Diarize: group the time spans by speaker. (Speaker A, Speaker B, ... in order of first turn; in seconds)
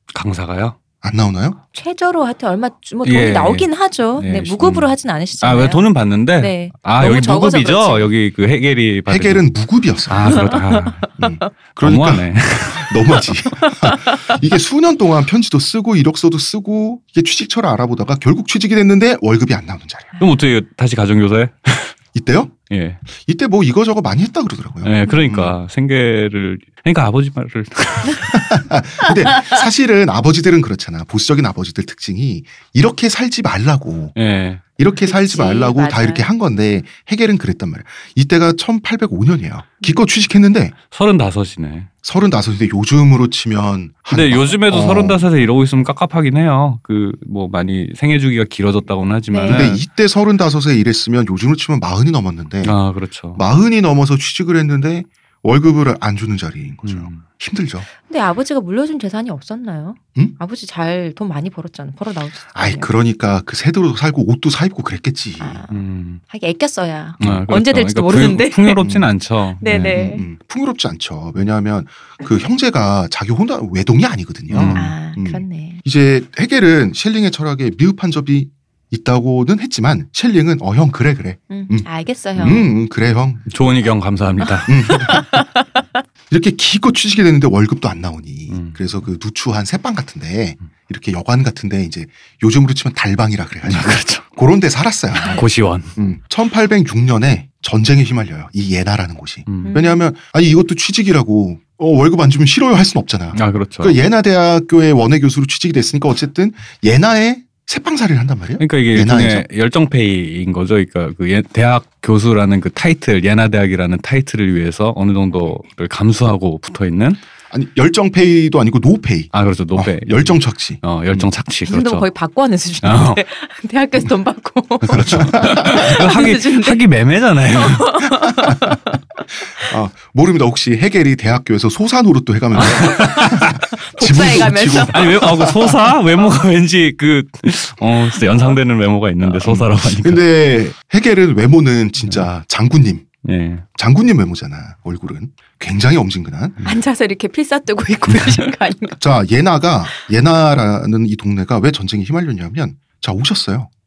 Speaker A: 0.1-0.8, 3.0-9.5, 10.1-11.1, 11.8-13.3, 20.2-21.9, 22.7-23.0, 24.8-28.6, 34.1-34.6, 40.9-41.9, 44.1-49.8, 52.6-53.4, 56.8-57.2, 65.7-66.2, 67.2-70.0, 74.5-74.9, 82.4-82.6, 83.5-85.2, 88.5-88.8, 93.7-94.2, 95.2-96.0, 99.5-99.8, 103.3-104.0, 108.6-117.2, 119.3-122.1, 122.8-123.2, 124.8-128.1, 132.6-133.6, 134.9-140.2, 143.2-143.6
Speaker B: 1.0-1.6, 9.1-10.4, 11.2-20.1, 22.1-22.6, 23.2-25.6, 28.3-34.1, 34.8-40.8, 42.0-45.2, 49.5-52.8, 53.4-57.9, 62.5-65.6, 68.8-69.1, 69.7-83.5, 84.7-85.3, 86.3-95.4, 96.0-109.5, 117.5-121.3, 124.9-126.0, 128.4-128.7, 129.6-135.8, 139.4-143.1, 143.8-146.6, 149.0-153.7
Speaker C: 1.7-8.1, 10.3-11.4, 13.8-14.4, 20.1-20.4, 35.0-36.3, 49.3-49.7, 58.0-62.9, 65.4-68.8, 69.6-70.2, 74.7-75.8, 81.5-82.7, 84.9-85.6, 95.2-95.4, 99.6-100.1, 121.7-126.8, 127.5-129.0, 132.7-135.2, 146.6-149.0